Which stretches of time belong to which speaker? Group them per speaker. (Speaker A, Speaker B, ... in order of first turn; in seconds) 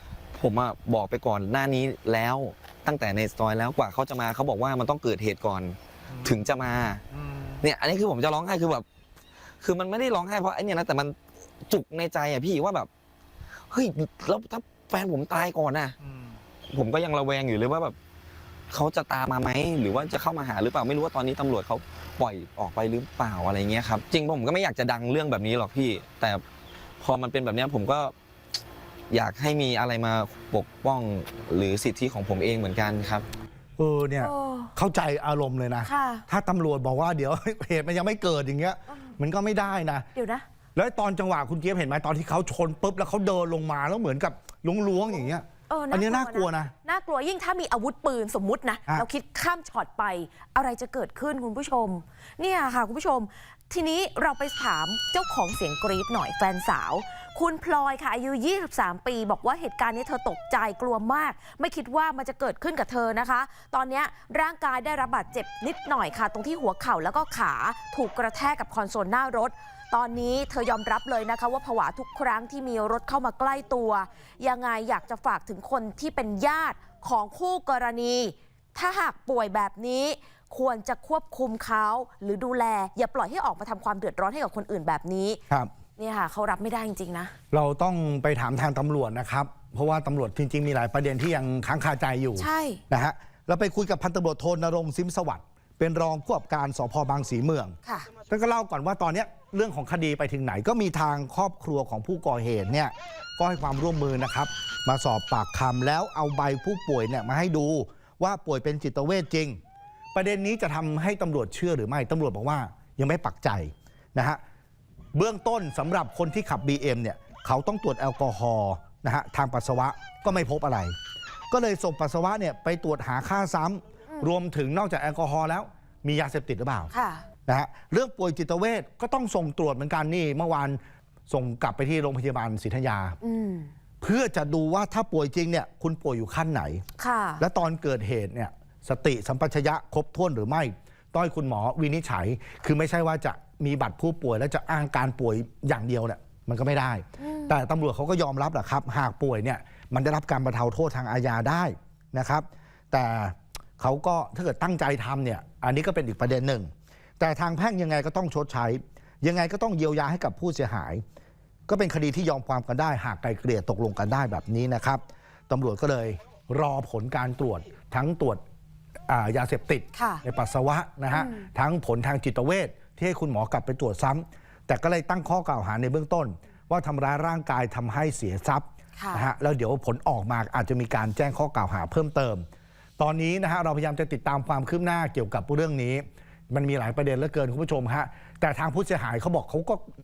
Speaker A: 0.3-7.0, 7.6-8.8, 9.6-12.9, 13.7-16.0, 16.7-17.9, 18.7-26.4, 27.0-28.1, 29.1-33.2
Speaker B: 33.8-40.1, 40.7-46.7, 87.5-97.7, 98.3-109.6, 110.1-114.4, 115.1-120.9, 121.5-126.9, 127.5-133.2, 134.0-136.8, 137.4-161.0, 161.7-168.4, 169.1-182.4, 183.0-189.8
Speaker C: 34.2-34.7, 35.8-36.2, 40.1-40.4, 45.7-85.4, 86.0-87.3, 92.4-92.8, 97.8-98.1, 126.9-127.2, 133.2-133.7, 137.0-137.4, 147.2-147.5, 169.9-170.2, 171.1-171.5, 179.0-179.2